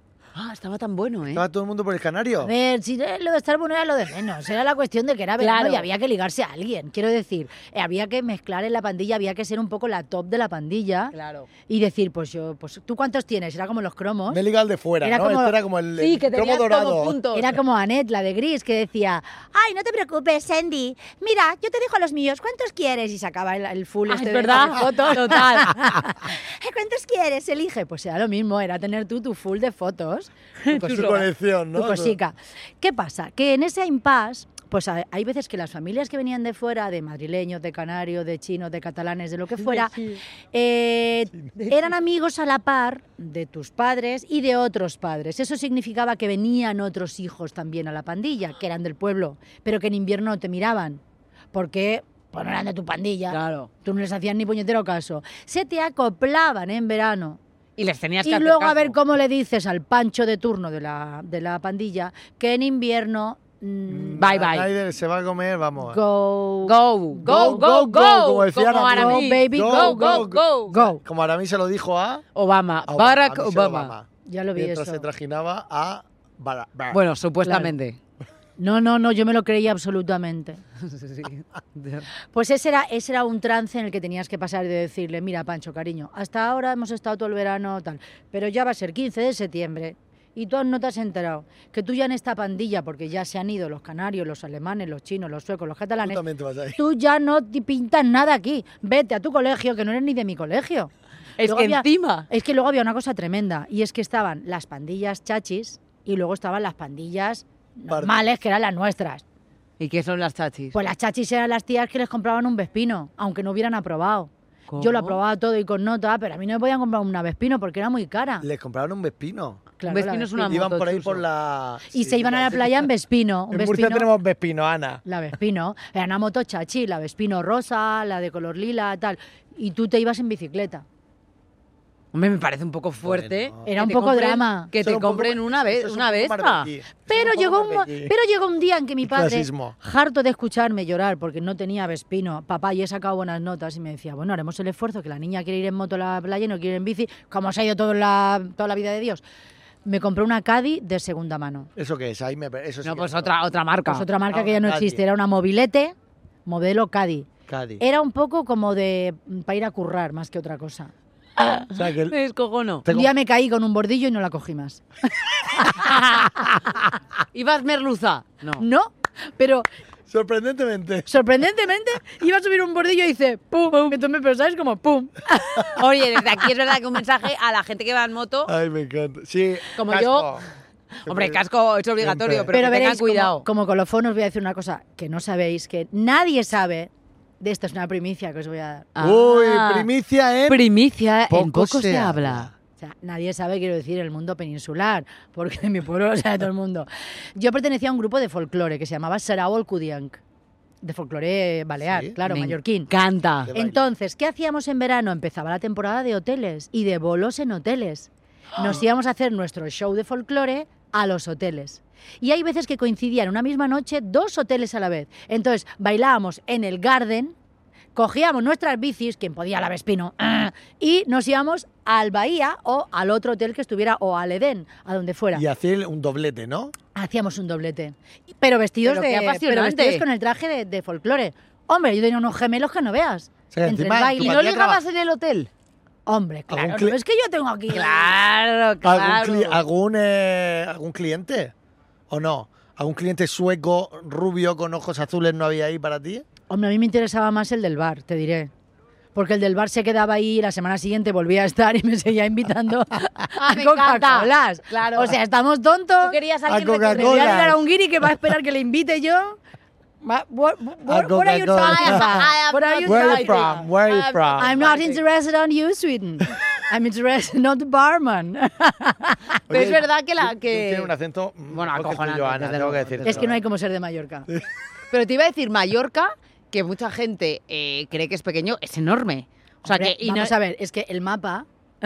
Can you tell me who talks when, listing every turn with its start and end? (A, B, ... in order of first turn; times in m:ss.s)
0:00.3-0:01.4 A
0:01.3-0:02.5 B
0:02.4-0:11.1 C
0:05.4-0:05.9 A
0:11.1-0:11.5 A
0:11.7-0:14.4 C
0:14.3-0:17.2 B
0:15.0-0:15.6 C
0:16.0-0:17.6 A
0:17.3-0:30.3 C
0:24.1-0:25.8 A
0:30.6-0:31.3 A
0:30.7-0:32.2 B
0:31.7-0:40.0 C
0:39.6-0:40.2 A
0:40.5-0:51.0 C
0:41.5-0:41.8 A
0:51.5-0:57.4 C
0:53.3-0:53.7 A
0:57.8-0:59.0 A
0:58.2-1:04.3 C
1:03.9-1:06.0 B
1:04.2-1:04.7 A
1:05.8-1:07.7 C
1:06.6-1:10.9 A
1:07.2-1:10.5 B
1:08.9-1:11.0 C
1:11.0-1:12.2 B
1:12.3-1:13.9 A
1:12.9-1:17.0 B
1:14.2-1:15.0 C
1:16.9-1:18.0 A
1:17.4-1:17.7 C
1:18.6-1:20.6 C
1:20.8-1:22.1 A
1:22.3-1:36.2 C
1:36.0-1:36.8 B
1:36.8-1:40.9 C
1:41.4-1:42.3 A
1:41.4-1:49.2 C
1:47.9-1:48.2 B
1:49.8-1:50.7 A
1:50.7-1:58.4 C
1:54.7-1:55.2 A
1:58.4-1:59.6 B
1:59.8-2:00.6 C
1:59.9-2:01.2 A
2:00.4-2:02.9 B
2:01.9-2:04.1 C
2:03.5-2:05.0 B
2:05.0-2:10.8 C
2:12.1-2:16.7 A
2:13.0-2:13.7 B
2:13.6-2:14.7 C
2:14.8-2:18.1 B
2:17.1-2:29.2 C
2:19.0-2:19.8 B
2:29.8-2:31.7 C
2:31.8-2:33.3 B
2:32.8-2:34.1 A
2:33.9-2:35.9 C
2:34.3-2:35.0 B
2:36.4-2:40.9 C
2:37.5-2:37.8 B
2:41.4-2:42.8 A
2:41.7-2:42.2 B
2:42.8-2:43.1 B
2:42.9-2:44.8 C
2:45.5-2:46.3 C
2:46.3-2:46.7 B
2:47.3-2:48.6 A
2:48.6-2:49.6 C
2:50.1-2:51.1 B
2:51.1-2:55.8 C
2:55.7-2:58.5 A
2:58.5-3:00.4 B
2:59.8-3:00.3 A
3:01.0-3:03.4 A
3:01.0-3:01.4 B
3:02.0-3:02.5 B
3:02.5-3:08.9 C
3:08.9-3:09.9 A
3:09.0-3:10.6 B
3:10.5-3:12.5 A
3:11.3-3:12.5 B
3:12.8-3:20.2 C
3:20.8-3:22.9 C
3:21.8-3:22.2 B
3:22.2-3:23.5 A
3:23.4-3:23.8 B
3:23.5-3:37.3 C
3:37.9-3:45.4 C
3:45.3-3:46.7 B
3:46.9-3:54.4 C
3:48.8-3:50.0 A
3:53.5-3:54.8 B
3:54.2-3:55.5 A
3:56.0-3:58.1 C
3:56.5-3:57.0 B
3:57.7-3:59.6 A
3:58.8-4:01.5 B
4:02.1-4:06.2 B
4:06.5-4:08.5 C
4:09.1-4:16.2 C
4:13.3-4:15.2 A
4:16.0-4:17.6 A
4:16.5-4:17.6 B
4:16.9-4:19.4 C
4:20.0-4:23.7 C
4:20.9-4:22.3 B
4:21.6-4:25.0 A
4:22.8-4:24.5 B
4:24.4-4:29.4 C
4:29.5-4:30.9 A
4:29.5-4:33.4 B
4:31.5-4:33.3 A
4:33.0-4:34.3 C
4:34.9-4:40.3 A
4:39.6-4:41.5 C